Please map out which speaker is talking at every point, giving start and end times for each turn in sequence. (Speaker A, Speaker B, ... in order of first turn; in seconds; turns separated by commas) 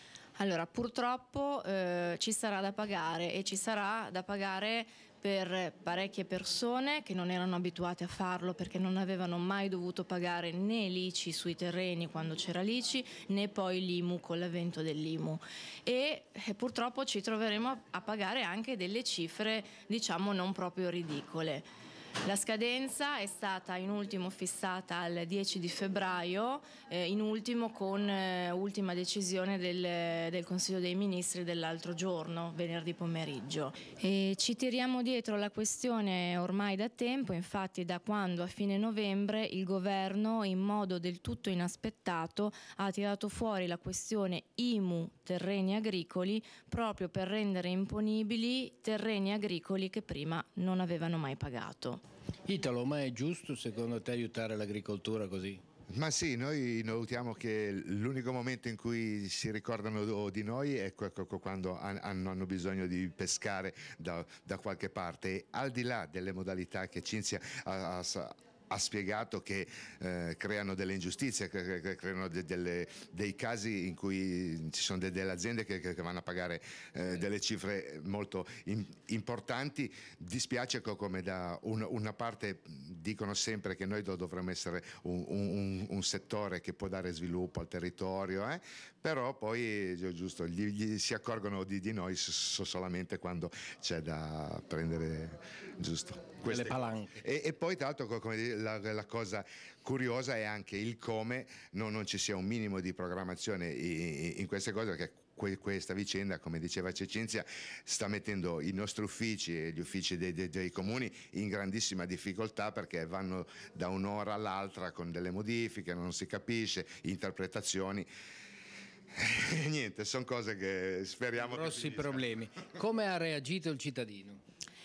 Speaker A: 0.4-21.7, Speaker A: 22.2-52.0, Speaker B: 52.5-55.6, Speaker C: 55.9-118.1, Speaker B: 96.5-97.2, Speaker C: 119.2-122.2, Speaker B: 121.4-124.4